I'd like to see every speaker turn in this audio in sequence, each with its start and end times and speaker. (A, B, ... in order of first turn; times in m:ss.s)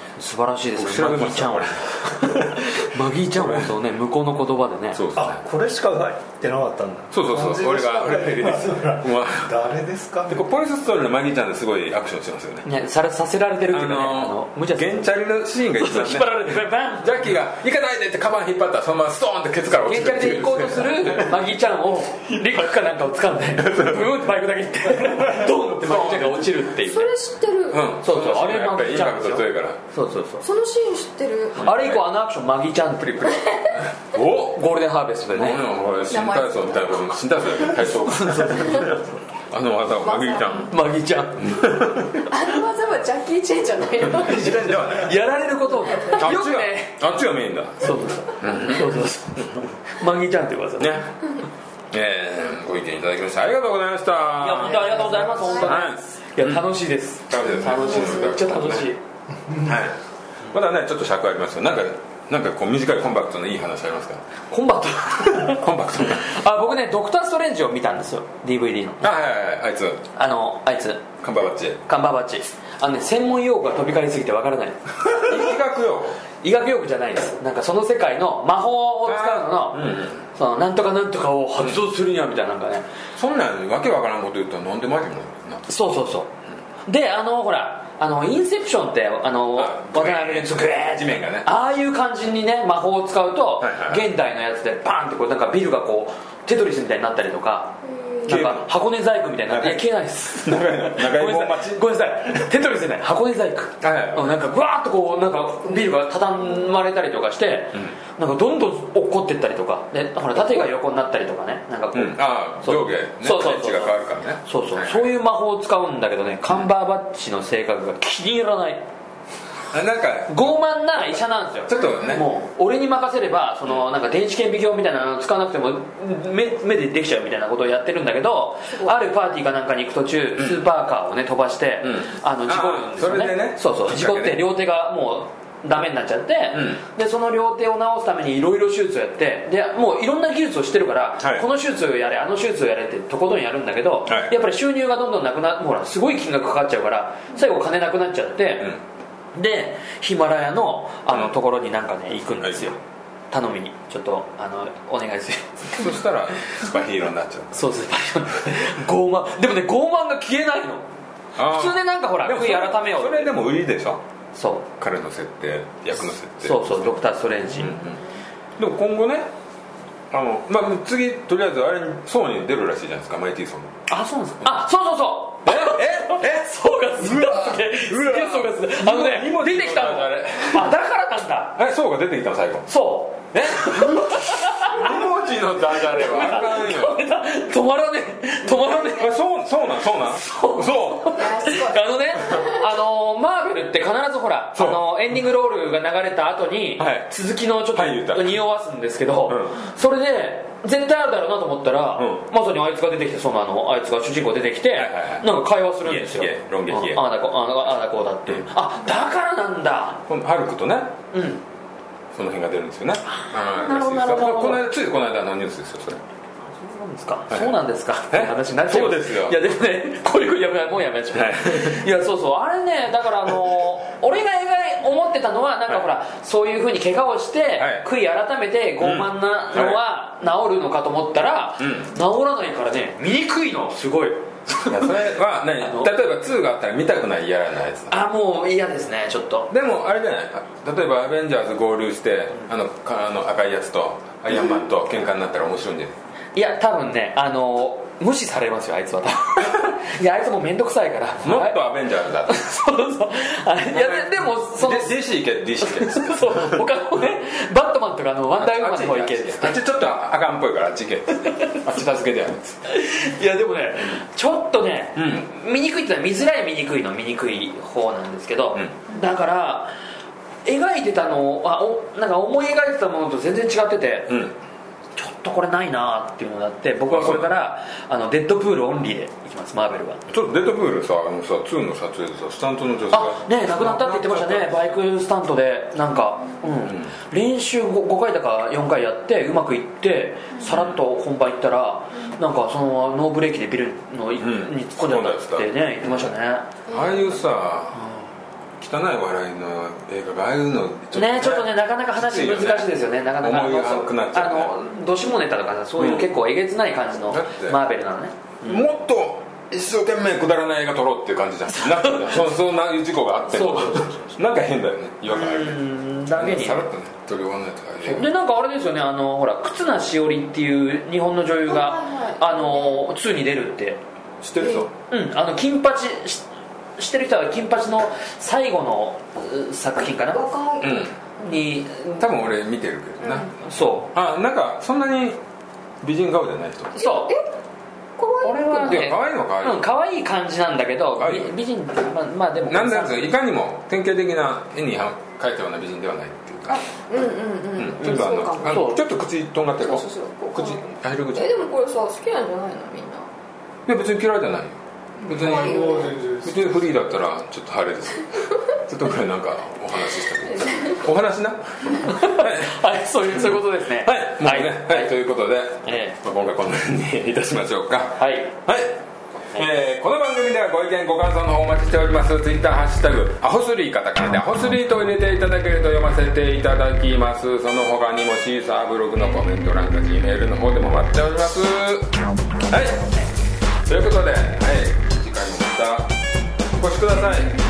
0:00.2-0:05.0 A
0:00.8-0:02.8 B
0:03.3-0:03.7 B
0:04.9-0:05.4 B
0:05.1-0:10.4 C
0:07.1-0:09.5 B
0:10.3-0:12.6 B
0:12.6-0:15.1 A
0:13.7-0:21.4 B
0:15.7-0:17.1 A
0:19.8-0:27.1 A
0:23.6-0:24.1 B
0:25.8-0:26.5 B
0:26.8-0:27.9 D
0:27.7-0:29.8 B
0:28.0-0:30.4 A
0:30.4-0:31.9 D
0:31.6-0:32.0 B
0:31.6-0:33.6 A
0:33.3-0:33.7 D
0:33.7-0:34.6 B
0:34.1-0:35.6 A
0:35.3-0:40.8 B
0:36.1-0:37.2 D
0:38.1-0:39.1 A
0:38.5-0:38.9 D
0:40.0-0:40.7 D
0:40.7-0:41.7 A
0:41.4-0:42.3 B
0:42.2-0:44.8 D
0:44.0-0:45.2 B
0:44.2-0:47.0 A
0:46.1-0:49.5 B
0:47.8-0:51.0 A
0:50.8-0:51.1 B
0:51.9-0:56.6 B
0:54.4-0:59.0 A
0:55.1-0:55.9 D
0:57.3-0:58.9 B
0:58.0-0:58.3 D
0:59.6-1:00.0 B
1:00.5-1:04.2 B
1:04.5-1:09.1 A
1:05.2-1:06.4 B
1:09.0-1:10.0 B
1:10.1-1:11.1 A
1:11.2-1:11.8 B
1:11.8-1:15.3 A
1:15.1-1:16.2 B
1:16.4-1:22.9 A
1:19.0-1:20.2 B
1:23.2-1:25.6 B
1:25.7-1:26.3 A
1:26.8-1:58.8 A
1:29.5-1:31.5 B
1:33.6-1:34.0 B
1:37.8-1:38.5 D
1:38.2-1:38.7 B
1:39.5-1:41.8 B
1:43.8-1:44.3 B
1:51.9-1:55.1 B
1:59.7-2:01.1 B
2:00.3-2:28.8 A
2:01.7-2:02.2 B
2:01.8-2:02.2 D
2:10.4-2:10.6 B
2:11.8-2:14.4 B
2:16.5-2:16.8 B
2:21.2-2:21.4 B
2:24.1-2:24.3 B
2:29.3-2:32.8 A
2:33.3-2:36.0 A
2:35.7-2:37.7 B
2:37.5-2:40.8 A
2:41.4-2:44.0 B
2:41.4-2:43.3 A
2:44.3-2:44.6 A
2:44.8-2:48.0 B
2:46.4-2:47.8 A
2:48.6-2:49.3 B
2:50.1-2:53.7 B
2:53.9-3:01.6 A
2:55.4-3:00.7 B
3:01.5-3:02.7 B
3:02.7-3:05.0 A
3:03.3-3:07.0 B
3:05.5-3:09.1 A
3:08.9-3:11.3 B
3:10.1-3:30.0 A
3:11.1-3:12.6 D
3:14.5-3:14.8 B
3:16.8-3:17.1 B
3:17.7-3:18.4 B
3:19.3-3:19.6 B
3:22.0-3:22.2 B
3:24.7-3:25.3 B
3:25.8-3:27.0 B
3:30.1-3:31.0 B
3:31.1-3:31.4 A
3:32.1-3:36.0 B
3:33.2-3:34.6 A
3:33.5-3:34.5 D
3:36.5-3:55.1 A
3:37.3-3:37.6 B
3:38.1-3:39.4 B
3:41.1-3:41.8 B
3:47.6-3:47.8 B
3:48.8-3:49.8 B
3:51.6-3:51.9 B
3:54.6-3:57.9 B
3:55.6-3:55.9 A
3:57.9-3:59.5 A
3:59.5-4:06.0 B
4:06.3-4:11.6 A
4:11.2-4:12.5 B
4:12.3-4:15.0 A
4:13.7-4:16.6 B
4:15.6-4:19.6 A
4:18.3-4:22.6 B
4:21.2-4:21.6 A
4:22.7-4:29.7 A
4:25.0-4:25.2 B
4:30.4-4:34.2 A
4:34.1-4:34.3 B
4:35.0-4:40.0 A
4:36.9-4:37.3 B
4:40.1-4:44.7 B
4:42.9-4:56.6 A
4:46.6-4:46.9 B
4:50.4-4:50.8 B
4:54.2-4:56.1 B
4:56.7-4:57.2 D
4:56.7-4:57.9 B
4:58.6-5:04.5 B
5:00.9-5:08.6 A
5:05.8-5:06.1 B
5:07.1-5:07.6 B
5:08.4-5:18.1 B
5:13.3-5:14.2 A
5:15.1-5:16.6 A
5:17.8-5:23.8 A
5:21.4-5:22.8 D
5:24.2-5:24.7 B
5:24.4-5:24.7 D
5:24.9-5:26.2 A
5:26.8-5:30.2 A
5:30.1-5:31.4 D
5:30.6-5:30.9 B
5:31.2-5:32.1 A
5:32.0-5:35.2 B
5:33.0-5:33.3 D
5:33.4-5:33.9 A
5:35.8-5:36.8 B
5:36.7-5:37.1 A
5:36.8-5:37.2 D
5:38.0-5:38.9 D
5:38.2-5:43.1 A
5:38.7-5:39.6 B
5:41.0-5:41.4 B
5:42.5-5:46.6 B
5:46.5-5:48.7 D
5:47.5-5:51.3 B
5:47.9-5:48.8 A
5:49.6-5:53.1 D
5:53.6-6:02.6 B
5:55.0-5:56.0 D
5:55.1-5:56.7 C
6:00.3-6:00.8 D
6:01.8-6:04.9 A
6:03.1-6:08.8 B
6:05.6-6:06.0 A
6:08.0-6:08.3 A
6:09.3-6:21.9 B
6:22.5-6:22.9 B
6:23.6-6:25.9 B
6:26.5-6:27.4 B